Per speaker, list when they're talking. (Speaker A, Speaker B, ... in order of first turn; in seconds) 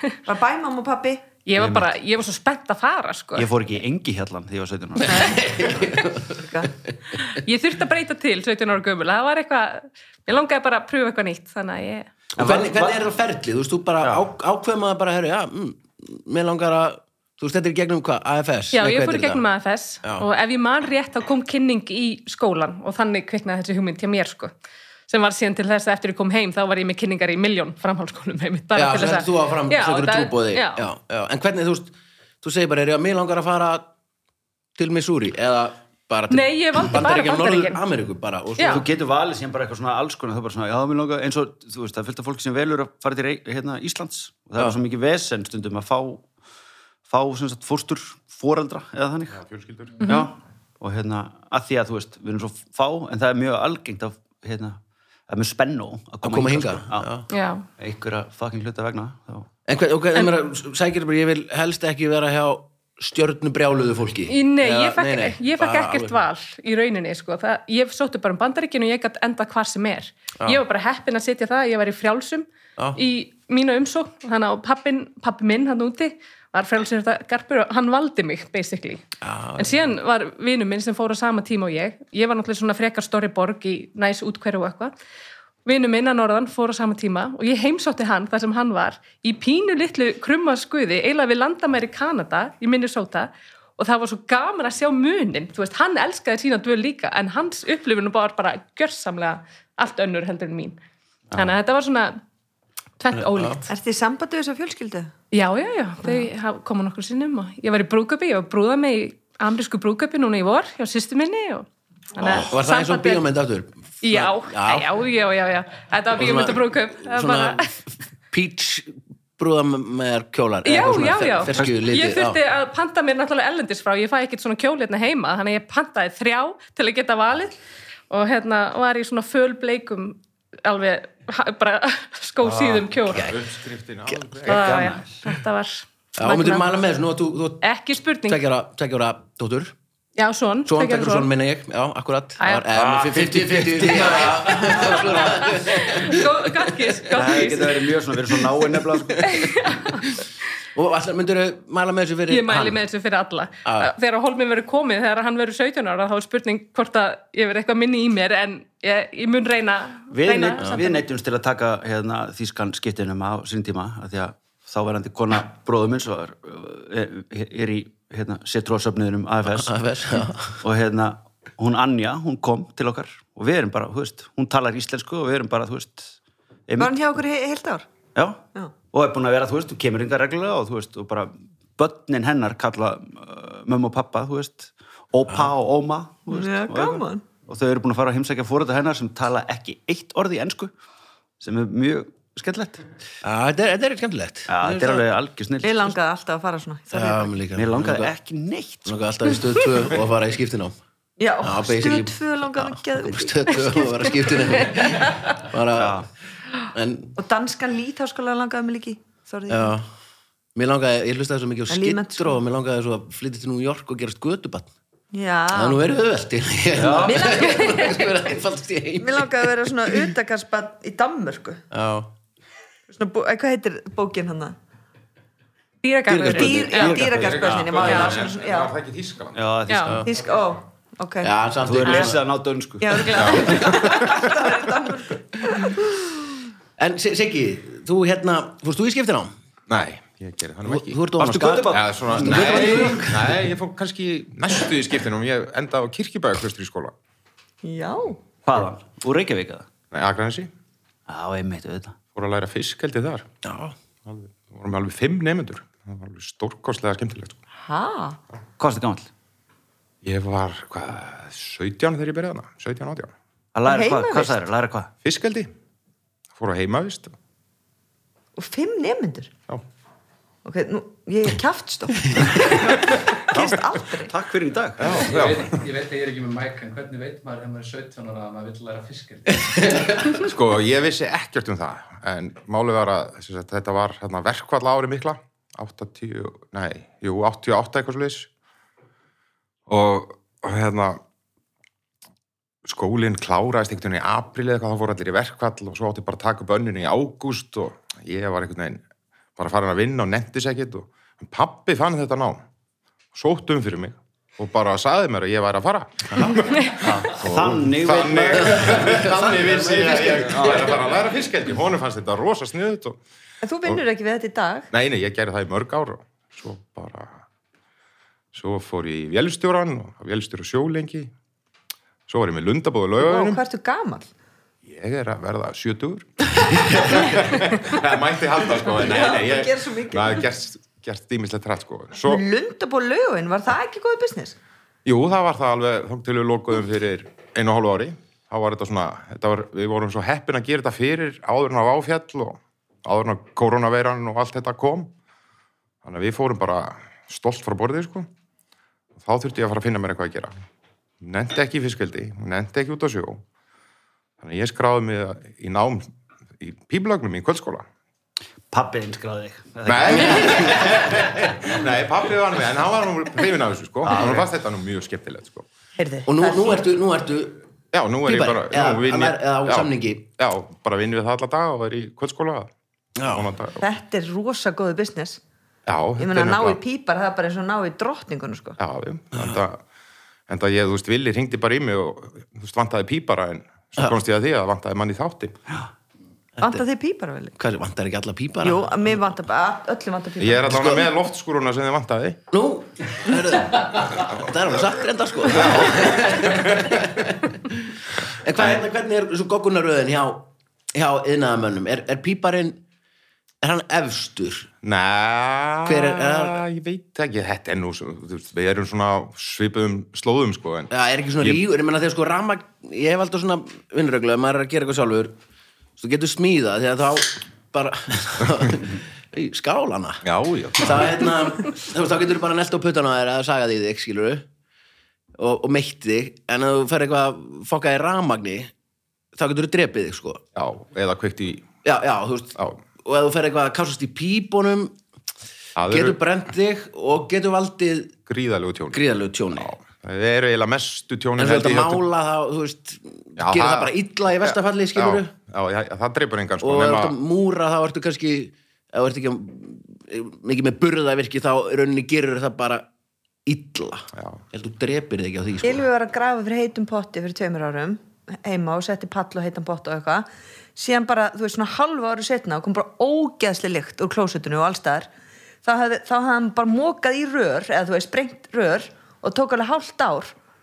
Speaker A: 0.2-1.2, 5.1-6.7, 103.7-105.1, 176.8-177.9, 186.3-187.2, 195.6-197.3, 201.2-204.1, 207.2-209.7, 211.7-212.4, 215.1-215.8, 217.0-218.0, 219.0-221.6, 222.9-224.6, 226.2-228.7, 230.1-231.3, 232.8-236.4, 247.6-248.2, 257.6-258.2, 263.6-264.4, 268.4-269.3, 270.4-274.1, 313.4-314.7, 323.0-324.1, 328.6-330.3, 332.1-334.4, 365.8-366.6, 373.6-375.2, 376.0-378.6, 386.4-387.3, 388.4-390.8, 455.4-464.9, 465.4-470.1
Speaker B: 1.4-3.5, 7.3-12.1, 18.7-24.5, 25.1-30.8, 36.3-37.8, 38.6-38.8, 50.0-50.3, 57.3-57.6, 64.3-79.0, 79.6-84.9, 85.6-100.8, 101.3-102.2, 103.0-103.7, 105.3-113.2, 114.0-117.7, 120.6-127.5, 128.1-133.2, 134.4-136.6, 137.6-138.4, 140.2-141.3, 142.4-142.7, 144.7-147.9, 149.3-150.0, 152.3-161.0, 217.6-217.9, 225.8-227.0
Speaker C: 1.6-1.9, 3.4-5.4, 12.4-13.1, 38.7-46.3, 47.1-49.4, 50.0-57.1, 57.8-59.5, 132.4-132.9, 134.5-135.2, 142.7-146.1, 147.1-149.5, 160.1-169.7, 170.6-176.2, 176.7-176.9, 178.1-190.7, 191.4-192.8, 194.5-195.9, 197.5-199.0, 205.7-206.1, 216.7-217.3, 226.3-228.1, 229.3-230.1, 231.6-233.3, 241.2-243.2, 248.4-249.7, 251.1-252.0, 258.6-259.1, 263.5-264.9, 273.3-275.2, 306.8-309.0, 310.3-310.8, 358.5-361.0, 363.8-364.3
Speaker D: 5.0-6.5, 12.3-19.4, 28.7-33.9, 34.8-38.9, 56.2-57.3, 59.7-66.2, 79.2-79.8, 103.1-103.6, 112.2-114.9, 116.2-117.6, 118.3-122.4, 133.1-133.5, 136.2-137.6, 138.3-139.7, 140.7-146.9, 150.7-152.8, 153.6-153.9, 169.5-170.6, 193.2-195.0, 196.9-198.1, 198.8-200.8, 201.4-206.1, 206.7-207.2, 209.5-209.9, 210.5-214.7, 215.5-219.3, 221.7-222.1, 229.8-230.1, 231.2-232.2, 236.8-239.3, 240.6-243.4, 253.4-253.7, 308.4-310.8, 366.1-367.4, 368.0-370.1, 373.0-373.3, 379.1-379.4, 386.4-386.6, 387.4-388.7, 390.5-390.8, 392.3-397.3, 398.1-402.6, 403.4-404.5, 405.6-406.4, 410.7-415.1, 415.8-420.0, 420.5-424.2, 425.2-428.5, 429.1-430.2, 431.6-434.8, 435.6-437.9, 438.7-439.5, 441.2-445.1, 446.4-452.7, 453.2-455.6
Speaker E: 49.3-50.0, 133.2-134.7, 227.1-229.4, 233.1-234.3, 239.7-241.0, 241.7-246.9, 249.9-250.5, 252.1-253.3, 254.0-257.4, 260.0-263.1, 265.0-265.5, 266.3-267.1, 274.8-275.6, 279.8-288.3, 289.7-291.0, 292.6-298.8, 299.4-302.4, 303.1-313.0, 314.7-317.2, 318.3-321.1, 322.1-323.4, 324.6-332.2, 334.8-344.9, 345.8-348.1, 349.0-350.4, 351.0-353.2, 354.2-355.9, 356.4-357.6, 359.6-365.5, 367.7-372.5, 373.1-373.6, 375.7-376.6, 378.6-379.6, 380.3-385.4, 390.2-392.2, 395.3-396.4, 404.6-411.4, 420.0-421.1, 430.4-431.5, 435.6-436.0, 438.1-438.8, 439.3-441.8, 443.2-446.9
Speaker F: 275.0-279.5